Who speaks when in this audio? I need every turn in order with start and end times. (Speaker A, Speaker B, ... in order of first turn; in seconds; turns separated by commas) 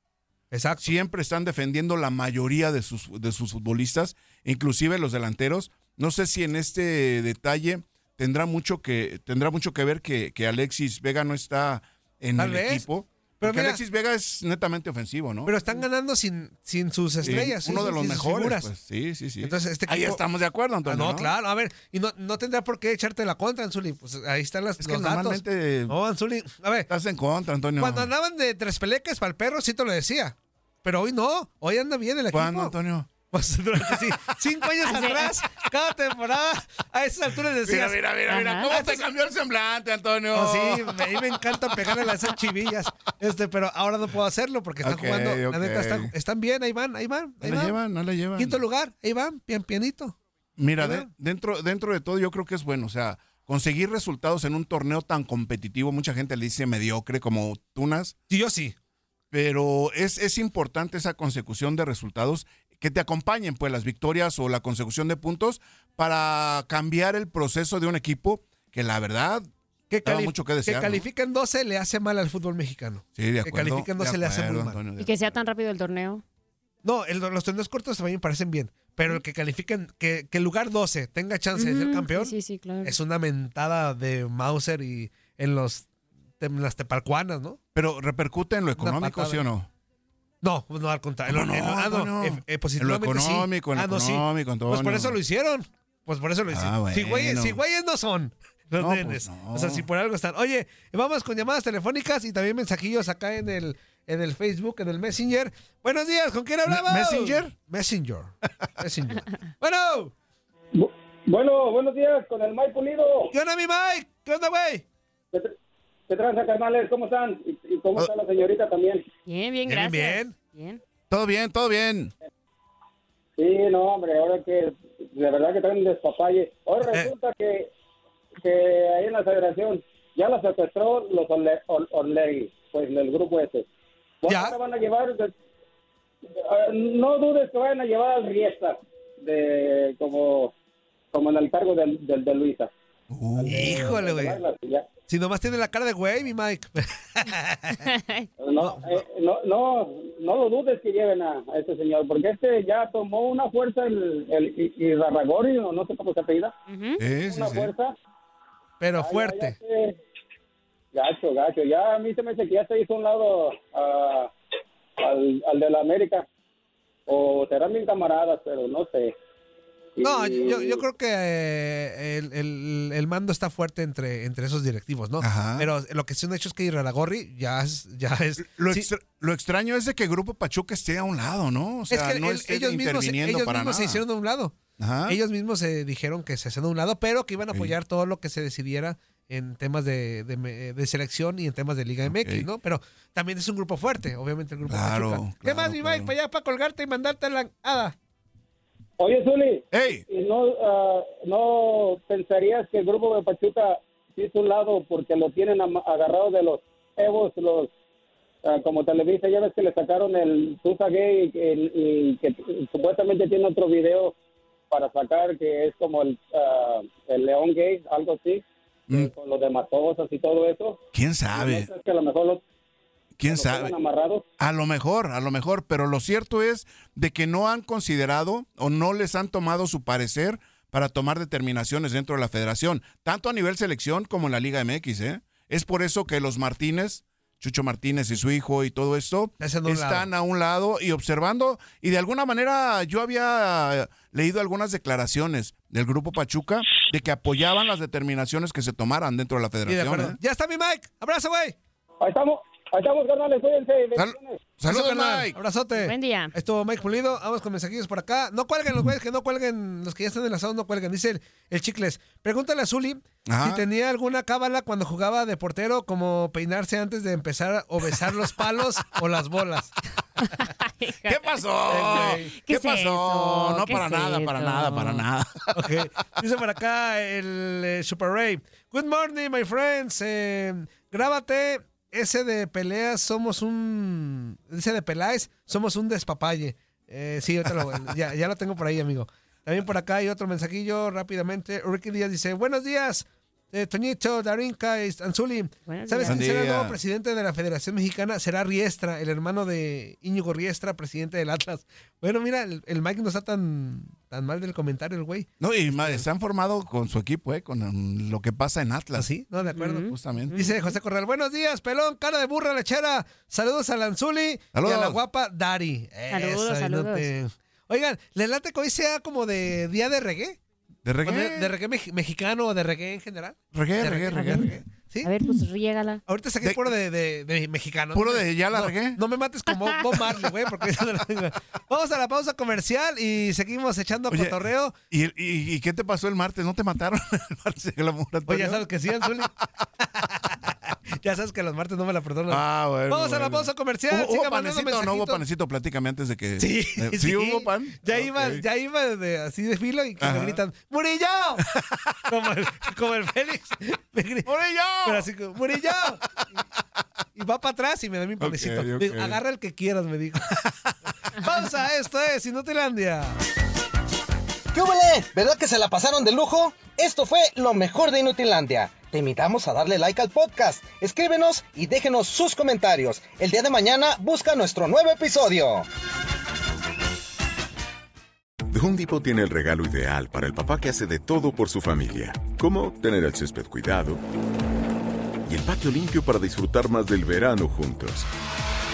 Speaker A: 0.5-0.9, Speaker B: 0.8-15.5, Speaker A: 12.4-12.9, Speaker A: 13.4-13.8, Speaker A: 15.5-18.7, Speaker B: 17.2-21.3, Speaker A: 19.4-20.2, Speaker A: 20.9-26.9, Speaker B: 24.8-26.0, Speaker B: 26.9-28.1, Speaker A: 27.8-32.7, Speaker B: 32.3-33.1, Speaker A: 33.3-38.1, Speaker B: 33.8-34.4, Speaker C: 34.9-35.3, Speaker B: 37.7-42.2, Speaker C: 38.3-38.7, Speaker A: 40.3-47.8, Speaker B: 44.8-46.1, Speaker B: 47.4-48.6, Speaker A: 48.4-50.2, Speaker B: 50.6-58.2, Speaker A: 50.8-51.1, Speaker A: 58.3-58.8, Speaker B: 59.3-69.5, Speaker A: 69.9-74.8, Speaker B: 70.0-71.1, Speaker B: 73.2-75.3, Speaker C: 75.0-76.2, Speaker A: 76.8-85.9, Speaker C: 81.5-83.0, Speaker A: 86.4-87.6, Speaker B: 87.8-89.7, Speaker A: 88.8-89.4, Speaker A: 90.4-110.1, Speaker B: 91.3-95.2, Speaker B: 96.5-97.6, Speaker B: 98.8-99.8, Speaker B: 106.7-107.5, Speaker D: 110.8-113.3, Speaker A: 113.3-114.8, Speaker D: 116.1-119.0, Speaker C: 119.3-120.8, Speaker A: 119.7-120.3, Speaker B: 121.1-122.1, Speaker D: 123.4-127.7, Speaker D: 128.4-133.7, Speaker D: 134.2-135.3, Speaker A: 134.3-134.6, Speaker D: 136.4-140.5, Speaker D: 141.1-142.7, Speaker B: 143.1-144.0, Speaker D: 143.3-144.9, Speaker A: 143.5-144.4, Speaker A: 145.1-147.9, Speaker C: 147.8-148.3, Speaker D: 148.4-156.5, Speaker A: 148.6-149.0, Speaker C: 156.7-157.0, Speaker B: 157.0-157.7, Speaker D: 157.2-157.9, Speaker A: 158.8-159.6, Speaker D: 159.0-160.0, Speaker D: 160.9-164.3, Speaker D: 165.0-166.3, Speaker D: 167.1-169.1, Speaker D: 170.0-170.8, Speaker A: 170.0-178.9, Speaker B: 175.2-175.7, Speaker B: 178.5-184.0, Speaker A: 181.9-184.6, Speaker B: 184.8-185.2, Speaker A: 185.1-197.9, Speaker B: 187.5-187.7, Speaker B: 192.1-192.5, Speaker B: 194.7-196.1, Speaker D: 199.0-207.7, Speaker B: 199.7-200.1, Speaker D: 208.4-214.2, Speaker D: 214.7-220.8, Speaker B: 220.9-221.7, Speaker D: 221.3-222.4, Speaker B: 223.2-223.7, Speaker D: 223.2-224.2, Speaker B: 224.4-250.2, Speaker A: 239.4-240.1, Speaker A: 249.7-251.6, Speaker D: 252.0-254.4, Speaker B: 253.9-255.4, Speaker A: 254.7-269.8, Speaker C: 255.8-256.3, Speaker B: 263.3-263.6, Speaker C: 270.3-275.0, Speaker B: 271.1-275.5, Speaker A: 271.7-272.3, Speaker A: 275.5-306.0, Speaker C: 295.7-296.3, Speaker B: 296.1-296.8, Speaker B: 305.4-309.1, Speaker A: 308.9-320.4, Speaker C: 309.5-310.7, Speaker B: 309.9-310.4, Speaker B: 314.6-315.0, Speaker C: 316.1-317.1, Speaker B: 320.9-321.5, Speaker A: 321.1-325.1, Speaker B: 323.5-324.6, Speaker C: 324.1-324.5, Speaker C: 325.0-326.0, Speaker A: 326.1-334.8, Speaker B: 326.4-326.7, Speaker B: 327.9-329.0, Speaker B: 334.1-339.4, Speaker A: 338.3-345.2, Speaker B: 342.3-348.4, Speaker A: 346.4-351.5, Speaker B: 350.0-350.4, Speaker B: 351.5-352.0, Speaker A: 352.1-354.3, Speaker B: 354.3-356.0, Speaker A: 354.8-356.0, Speaker A: 357.1-360.4, Speaker B: 358.2-359.2, Speaker A: 361.1-363.2, Speaker E: 364.5-375.7, Speaker F: 378.5-384.0, Speaker F: 385.3-388.1